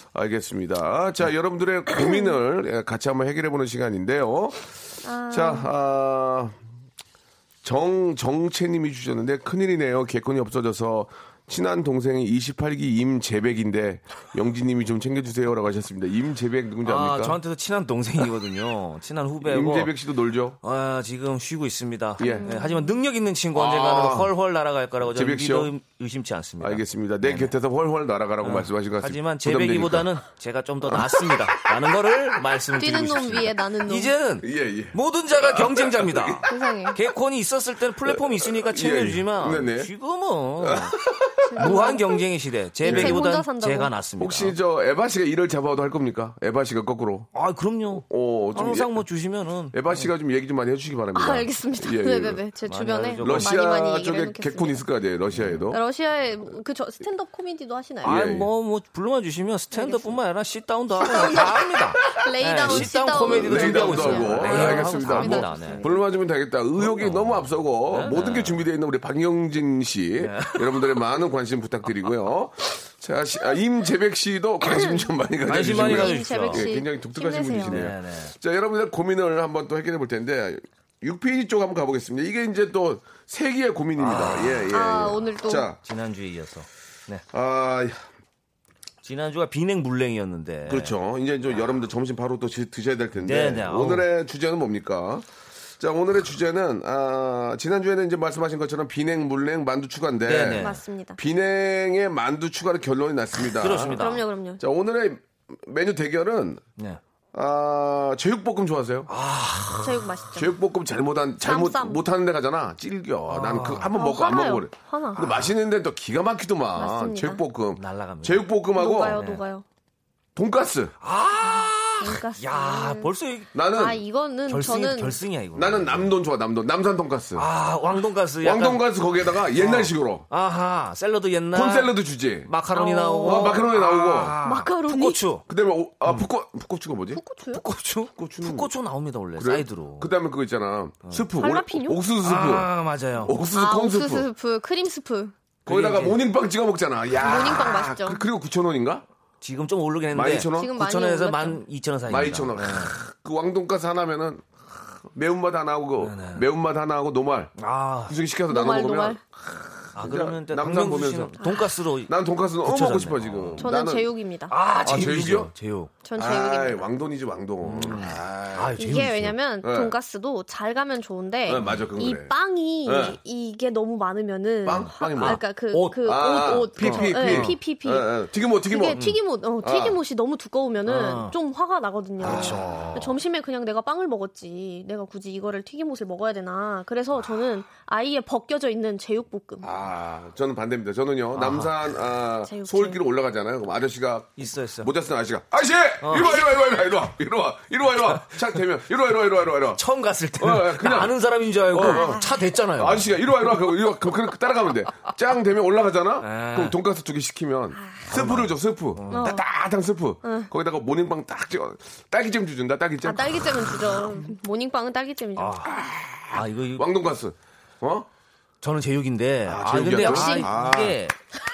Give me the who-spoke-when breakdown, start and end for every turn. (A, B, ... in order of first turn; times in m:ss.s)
0:00.1-0:04.7 A
0:01.9-0:02.3 B
0:05.0-0:05.7 B
0:05.3-0:06.6 A
0:07.6-0:17.4 A
0:16.8-0:19.9 C
0:19.4-0:20.6 A
0:20.6-0:27.5 C
0:22.2-0:22.5 A
0:22.3-0:23.0 B
0:23.5-0:24.3 A
0:25.0-0:25.7 A
0:26.6-0:30.2 A
0:28.4-0:40.9 C
0:30.8-0:31.6 A
0:32.7-0:34.2 B
0:34.4-0:36.5 A
0:36.5-0:37.0 B
0:38.0-0:39.9 A
0:40.6-0:42.0 A
0:41.4-0:42.2 B
0:41.6-0:44.6 C
0:42.8-0:43.9 B
0:42.8-0:43.2 A
0:44.2-0:47.3 A
0:47.3-0:50.1 C
0:48.0-0:49.0 A
0:49.7-0:52.4 A
0:51.1-0:54.8 B
0:52.7-0:53.5 C
0:53.2-0:55.8 A
0:55.3-0:55.6 C
0:55.7-0:58.2 B
0:58.0-0:58.5 A
0:58.0-1:05.9 C
0:59.7-1:00.2 B
1:01.0-1:25.8 A
1:02.0-1:06.1 B
1:06.8-1:08.7 C
1:10.2-1:10.9 C
1:14.6-1:17.8 B
1:15.5-1:16.7 C
1:17.7-1:18.3 C
1:24.0-1:24.7 C
1:24.7-1:25.7 B
1:25.8-1:27.2 C
1:27.3-1:28.1 A
1:29.0-1:31.0 C
1:30.7-1:44.0 A
1:33.2-1:34.1 C
1:40.3-1:40.8 C
1:40.5-1:41.2 B
1:43.6-1:44.2 C
1:44.0-1:44.6 B
1:44.6-1:46.6 A
1:47.3-1:49.1 A
1:49.1-1:50.0 C
1:49.7-1:50.5 B
1:50.4-1:59.2 A
1:51.4-1:52.0 B
1:53.3-1:53.9 C
1:54.0-1:55.2 B
1:56.8-1:57.4 B
1:57.8-1:58.5 C
1:58.8-1:59.6 B
1:59.1-1:59.4 C
2:00.4-2:00.9 A
2:01.0-2:03.5 C
2:01.4-2:05.2 B
2:03.5-2:04.0 A
2:04.5-2:06.1 C
2:05.6-2:07.5 A
2:07.4-2:08.9 C
2:08.4-2:10.2 A
2:09.6-2:11.9 C
2:11.5-2:12.5 A
2:12.4-2:15.4 C
2:12.7-2:13.6 B
2:13.2-2:14.4 A
2:14.4-2:15.2 B
2:15.5-2:17.2 A
2:17.1-2:17.6 B
2:17.5-2:20.1 C
2:18.1-2:18.7 A
2:19.4-2:22.7 A
2:21.4-2:22.0 B
2:22.2-2:23.3 C
2:23.2-2:24.3 A
2:23.5-2:25.3 B
2:25.7-2:26.2 C
2:25.7-2:29.0 A
2:27.2-2:28.2 B
2:29.4-2:33.0 C
2:30.1-2:30.8 A
2:30.5-2:31.6 B
2:32.1-2:37.5 A
2:36.0-2:36.4 C
2:37.6-2:38.2 C
2:38.1-2:41.5 A
2:38.5-2:39.2 B
2:39.9-2:43.7 C
2:42.1-2:44.1 A
2:43.6-2:44.5 B
2:44.5-2:45.9 C
2:44.8-2:45.5 A
2:46.0-2:46.9 B
2:46.2-2:48.8 A
2:47.6-2:49.4 C
2:48.8-3:09.7 B
2:49.6-2:49.9 A
2:51.5-2:52.3 A
2:52.8-2:53.2 A
2:54.6-2:59.1 A
2:54.8-2:57.6 C
2:59.6-3:00.0 A
3:00.9-3:01.4 C
3:02.2-3:03.0 A
3:02.2-3:03.2 C
3:09.6-3:19.8 A
3:11.4-3:11.7 C
3:12.5-3:13.0 B
3:14.4-3:14.9 C
3:16.0-3:16.4 C
3:18.1-3:18.5 C
3:19.8-3:23.2 C
3:20.4-3:21.2 A
3:21.7-3:34.0 A
3:21.8-3:22.5 B
3:26.2-3:26.8 C
3:27.8-3:28.1 B
3:28.1-3:29.3 C
3:29.1-3:29.4 B
3:30.2-3:30.5 B
3:33.0-3:35.7 B
3:35.4-3:35.8 C
3:35.7-3:38.1 A
3:36.3-3:36.9 C
3:38.6-3:41.2 C
3:39.5-3:41.0 A
3:39.9-3:40.5 B